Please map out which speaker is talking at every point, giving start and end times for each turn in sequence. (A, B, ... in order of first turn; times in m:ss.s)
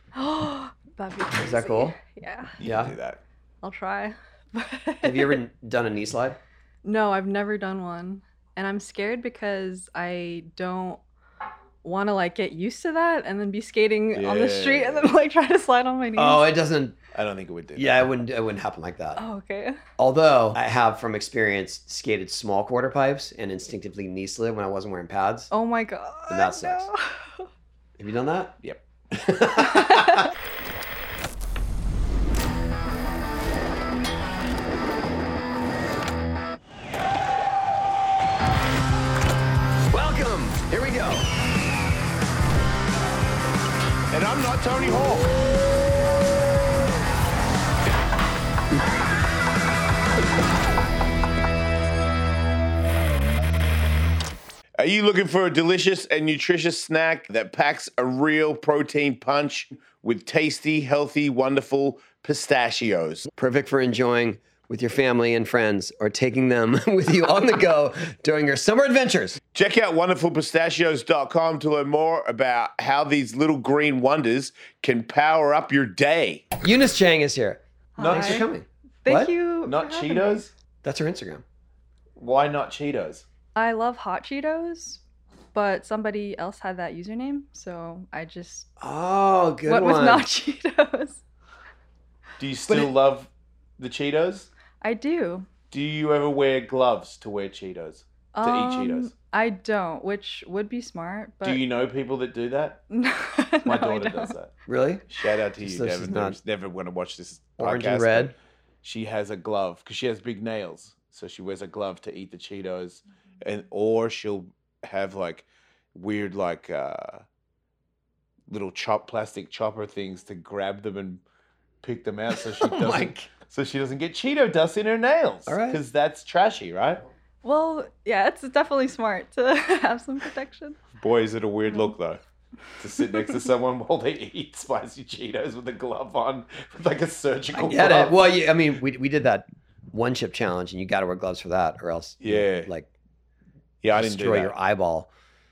0:00.1-0:02.6 A
0:01.3-0:02.0 B
0:02.6-0:03.2 C
0:02.6-0:02.9 B
0:03.6-0:05.4 A
0:05.0-0:06.4 B
0:06.8-0:11.0 A
0:11.8-0:16.5 A
0:14.1-0:15.1 C
0:16.2-0:17.0 B
0:17.1-0:18.1 C
0:17.8-0:19.2 B
0:19.2-0:19.8 A
0:20.0-0:25.5 B
0:25.5-0:27.5 A
0:26.3-0:26.9 B
0:28.0-0:28.5 B
0:29.1-0:30.3 B
0:29.6-0:30.3 A
0:39.9-0:41.3 B
0:44.1-0:45.3 C
0:54.8-1:03.3 C
1:03.3-1:09.4 B
1:09.5-1:16.4 C
1:16.6-1:19.3 B
1:18.0-1:18.5 A
1:18.0-1:18.4 C
1:19.0-1:20.4 A
1:19.6-1:20.5 C
1:20.8-1:21.4 B
1:22.2-1:23.2 C
1:23.6-1:25.0 A
1:25.5-1:28.7 A
1:28.8-1:30.2 B
1:29.7-1:31.2 A
1:32.4-1:34.5 C
1:34.8-1:35.5 A
1:35.7-1:39.1 C
1:38.3-1:41.6 A
1:41.4-1:42.8 C
1:42.9-1:44.3 A
1:43.6-1:44.5 C
1:44.7-1:45.0 B
1:45.1-1:57.2 C
1:45.6-1:46.4 B
1:47.6-1:48.3 B
1:58.5-2:01.2 C
2:01.8-2:07.0 C
2:02.4-2:03.3 B
2:05.5-2:05.8 B
2:07.4-2:10.8 A
2:11.0-2:12.2 C
2:12.8-2:18.2 C
2:17.5-2:22.9 B
2:22.2-2:22.7 C
2:23.8-2:24.5 C
2:24.0-2:25.1 B